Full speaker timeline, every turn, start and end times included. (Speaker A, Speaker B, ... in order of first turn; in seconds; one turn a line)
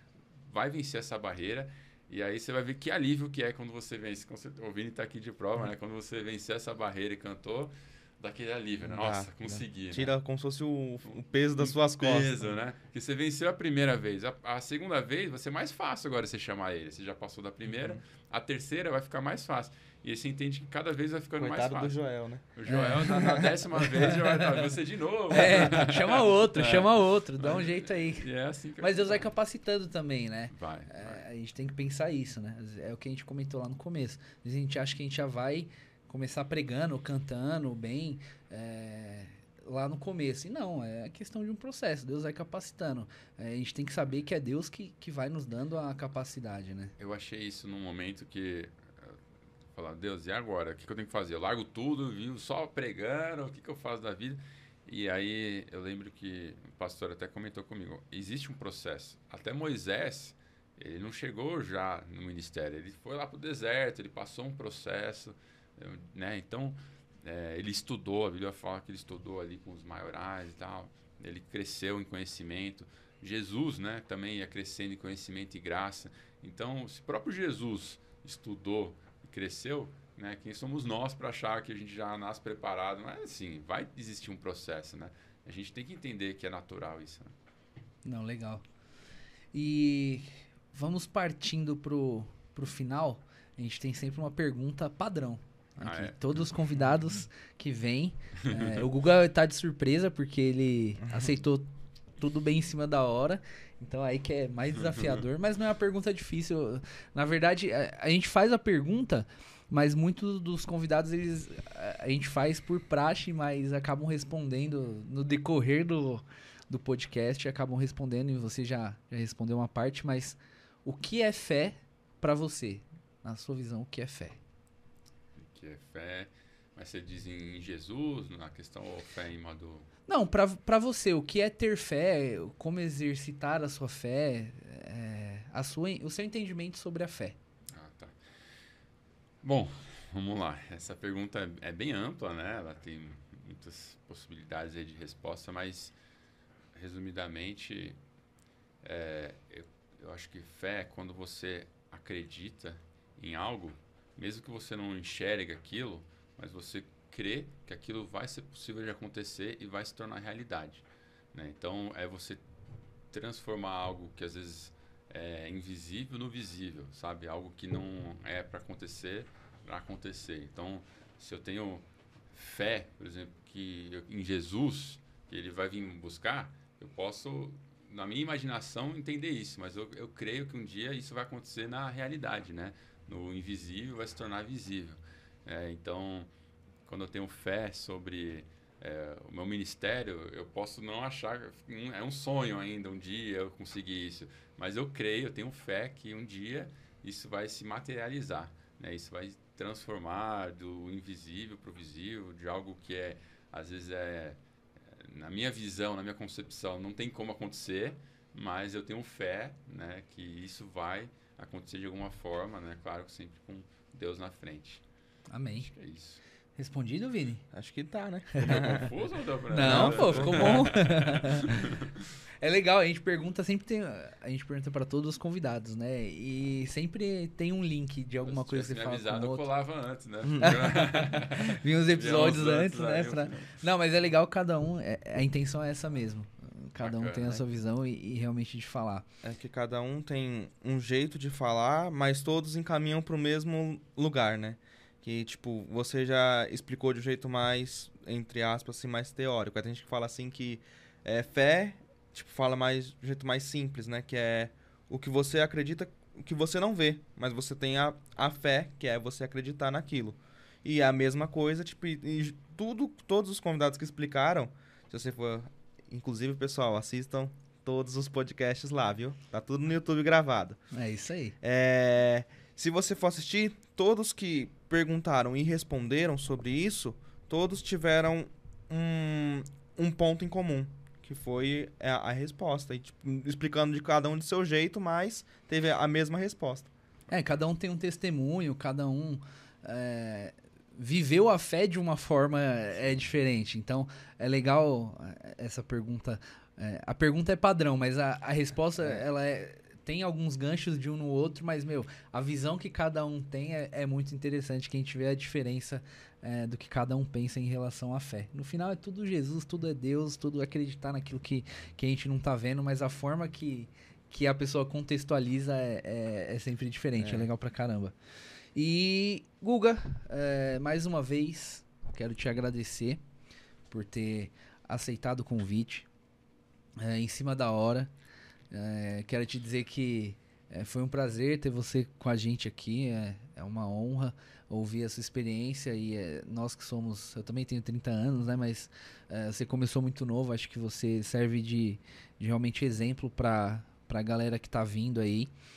Speaker A: 0.4-10.1
Speaker B: 8.8-12.5
Speaker A: 11.5-22.0
Speaker B: 21.4-22.4
Speaker A: 22.5-29.3
Speaker C: 22.7-24.6
Speaker B: 23.2-23.5
Speaker C: 25.3-28.3
Speaker C: 28.8-46.9
Speaker A: 30.5-31.2
Speaker A: 47.0-49.2
Speaker A: 49.7-87.3
Speaker C: 88.0-88.6
Speaker C: 89.5-101.7
Speaker A: 95.8-96.5
Speaker B: 101.0-101.3
Speaker C: 102.2-124.4
Speaker A: 104.9-105.2
Speaker A: 125.4-129.9
Speaker C: 130.1-137.4
Speaker A: 137.7-138.2
Speaker A: 139.4-145.9
Speaker A: 146.7-148.0
Speaker A: 148.8-162.4
Speaker A: 163.1-186.3
Speaker A: 186.8-204.4
Speaker A: 204.9-214.8
Speaker C: 215.3-215.7
Speaker A: 215.6-216.2
Speaker C: 216.6-217.4
Speaker B: 217.5-218.9
Speaker A: 218.4-222.0
Speaker C: 219.5-221.6
Speaker B: 219.6-220.7
Speaker C: 222.4-229.4
Speaker A: 228.2-233.6
Speaker C: 230.4-239.0
Speaker A: 236.8-237.4
Speaker B: 239.2-270.6
Speaker C: 270.7-271.3
Speaker B: 271.4-286.7
Speaker C: 287.1-317.9
Speaker B: 298.8-299.0
Speaker B: 317.0-317.3
Speaker C: 318.5-323.0
Speaker C: 323.7-325.9
Speaker C: 326.8-327.9
Speaker C: 328.5-345.3